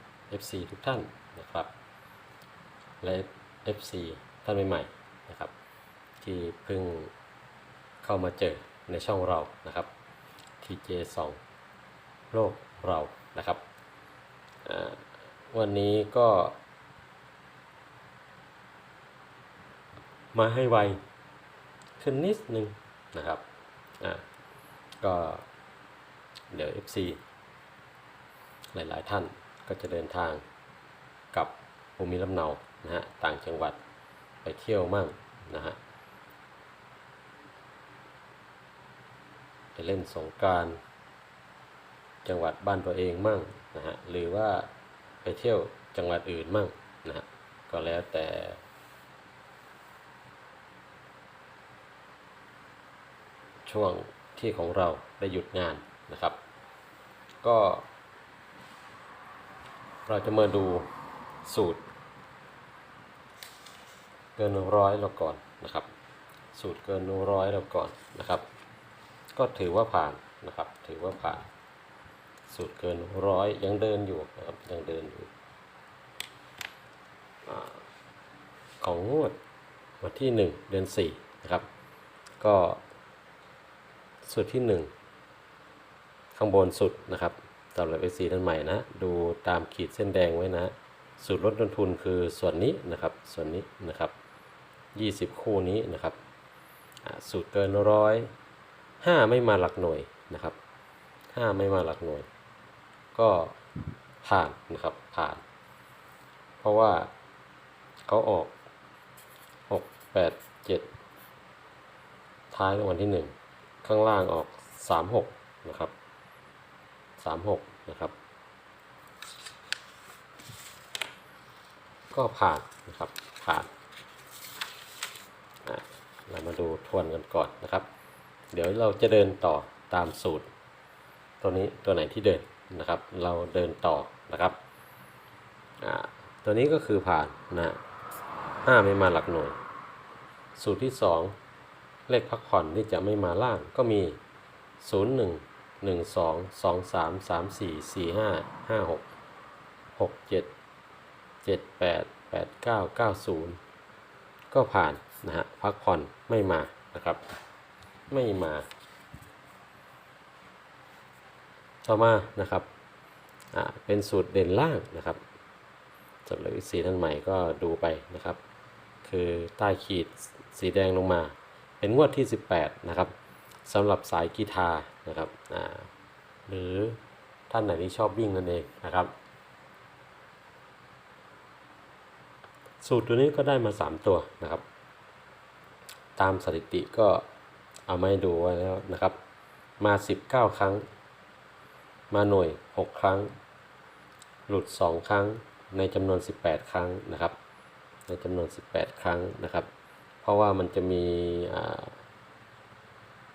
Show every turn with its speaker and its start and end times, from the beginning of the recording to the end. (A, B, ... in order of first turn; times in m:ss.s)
0:00.3-0:01.7 A
0:03.0-0:05.5 A
0:06.2-0:07.1 A
0:08.0-0:09.9 A
0:10.6-0:11.4 A
0:12.3-0:13.6 A
0:14.6-0:16.6 A
0:20.3-0:21.0 A
0:22.0-0:23.4 A
0:25.0-0:25.4 A
0:26.5-0:27.2 A
0:28.7-0:30.4 A
0:31.3-0:33.8 A
0:34.4-0:35.8 A
0:39.7-0:40.8 A
0:42.2-0:44.7 A
0:45.2-0:48.6 A
0:53.6-0:56.4 A
0:57.4-0:57.9 A
1:00.1-1:00.9 A
1:01.4-1:01.8 A
1:04.4-1:05.9 A
1:06.5-1:08.4 A
1:09.3-1:11.5 A
1:12.5-1:15.3 A
1:17.4-1:17.8 A
1:18.8-1:19.4 A
1:20.0-1:21.6 A
1:22.4-1:22.8 A
1:24.2-1:24.9 A
1:26.3-1:34.1 A
1:34.9-1:36.2 A
1:37.0-1:38.3 A
1:39.0-1:40.6 A
1:41.3-1:42.3 A
1:43.1-1:43.6 A
1:44.2-1:45.4 A
1:46.6-1:47.1 A
1:48.1-1:48.5 A
1:49.7-1:50.9 A
1:52.5-1:55.9 A
1:57.2-1:58.1 A
2:02.1-2:03.7 A
2:05.6-2:07.9 A
2:08.5-2:10.5 A
2:11.4-2:14.6 A
2:15.8-2:17.8 A
2:18.6-2:19.6 A
2:20.6-2:21.3 A
2:22.1-2:24.2 A
2:24.8-2:29.1 A
2:30.0-2:30.5 A
2:31.4-2:33.6 A
2:34.5-2:37.2 A
2:38.1-2:38.6 A
2:41.8-2:42.7 A
2:43.5-2:45.2 A
2:46.2-2:48.4 A
2:49.0-2:53.1 A
2:53.6-2:55.9 A
2:56.5-2:57.0 A
2:57.5-2:59.1 A
3:02.8-3:04.6 A
3:06.2-3:07.2 A
3:07.9-3:09.2 A
3:09.8-3:10.8 A
3:12.1-3:13.3 A
3:14.5-3:17.4 A
3:18.1-3:19.7 A
3:20.2-3:22.0 A